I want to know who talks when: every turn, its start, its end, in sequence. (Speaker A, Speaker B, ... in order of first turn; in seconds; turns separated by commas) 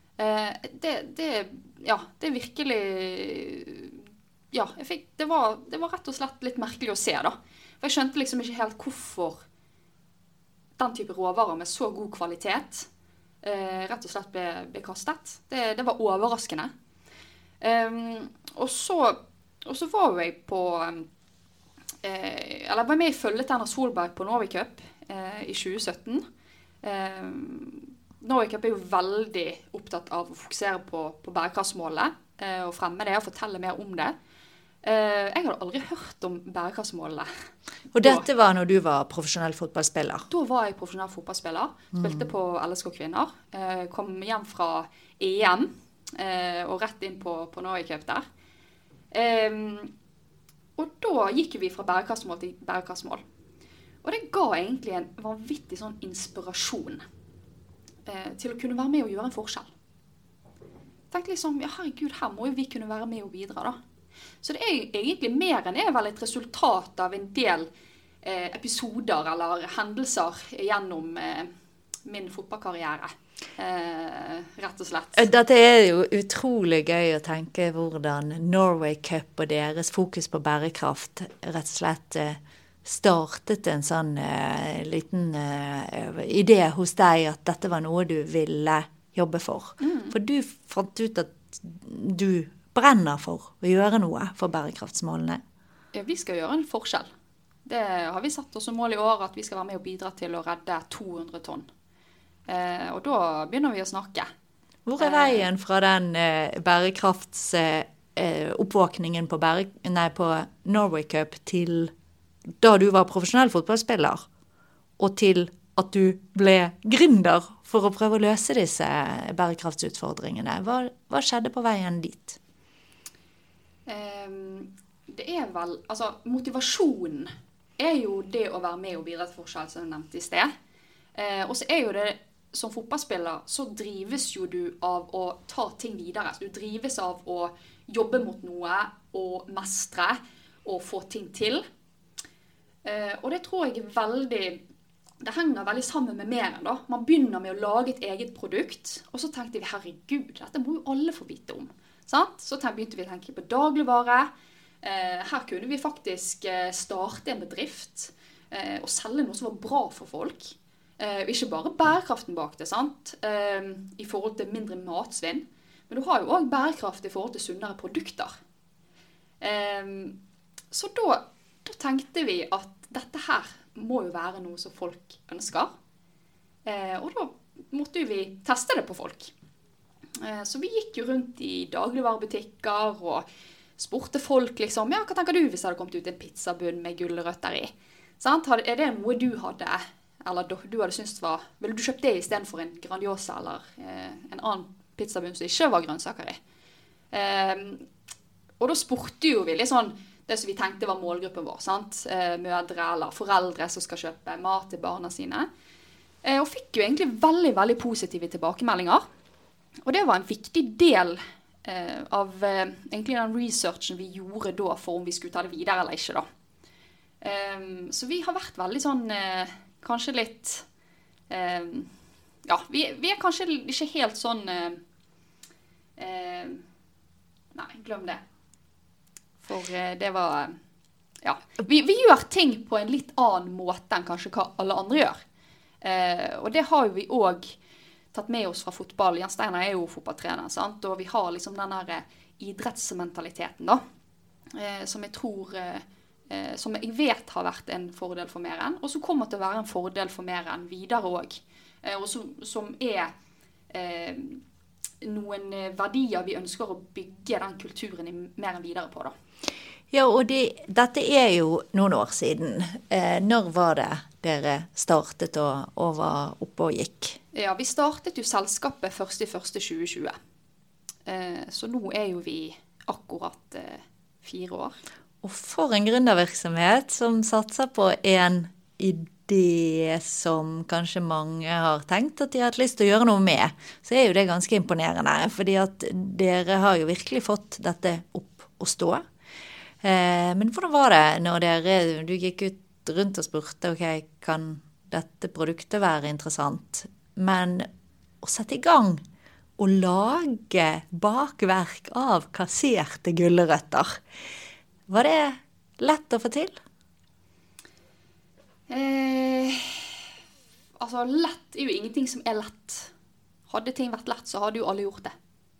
Speaker A: 0.2-9.4, Speaker A: 10.8-12.9, Speaker A: 13.4-16.7, Speaker A: 17.6-21.1, Speaker A: 22.0-26.2, Speaker A: 26.8-34.1, Speaker A: 34.8-37.3, Speaker B: 37.9-40.3, Speaker A: 40.3-48.2, Speaker B: 42.0-42.2, Speaker A: 49.1-49.9, Speaker A: 50.8-53.2, Speaker A: 54.0-57.0, Speaker A: 58.0-59.7, Speaker A: 61.1-63.8, Speaker A: 64.4-67.7, Speaker A: 68.2-71.5, Speaker A: 72.0-75.2, Speaker B: 75.2-95.4, Speaker A: 89.8-90.1, Speaker A: 95.9-97.1, Speaker A: 97.6-101.7, Speaker A: 102.5-104.3, Speaker B: 104.8-111.9, Speaker A: 105.0-105.4, Speaker B: 112.6-114.2, Speaker B: 115.0-122.4, Speaker A: 123.9-130.5, Speaker A: 131.1-141.6, Speaker A: 142.8-144.6, Speaker A: 145.2-154.3, Speaker A: 154.8-168.3, Speaker A: 169.4-170.2, Speaker A: 170.7-175.7, Speaker A: 176.6-179.3, Speaker A: 180.2-183.2, Speaker A: 183.8-196.4, Speaker A: 197.1-197.8, Speaker A: 198.6-205.5, Speaker A: 206.2-209.0, Speaker A: 209.8-216.2, Speaker A: 217.2-220.6, Speaker A: 221.3-221.9, Speaker A: 222.4-224.8, Speaker A: 226.0-226.6, Speaker A: 227.5-228.2, Speaker A: 229.4-230.6, Speaker A: 231.2-235.2, Speaker A: 235.8-237.6, Speaker A: 238.1-243.8, Speaker A: 244.5-253.1, Speaker A: 253.7-254.4, Speaker A: 255.0-259.1, Speaker B: 259.9-267.2, Speaker A: 267.3-270.1, Speaker A: 271.1-274.8, Speaker B: 275.2-289.0, Speaker B: 289.8-297.7, Speaker B: 298.2-299.0, Speaker B: 299.6-304.0, Speaker B: 304.9-306.6, Speaker A: 308.7-310.1, Speaker A: 310.8-312.9, Speaker A: 313.5-315.1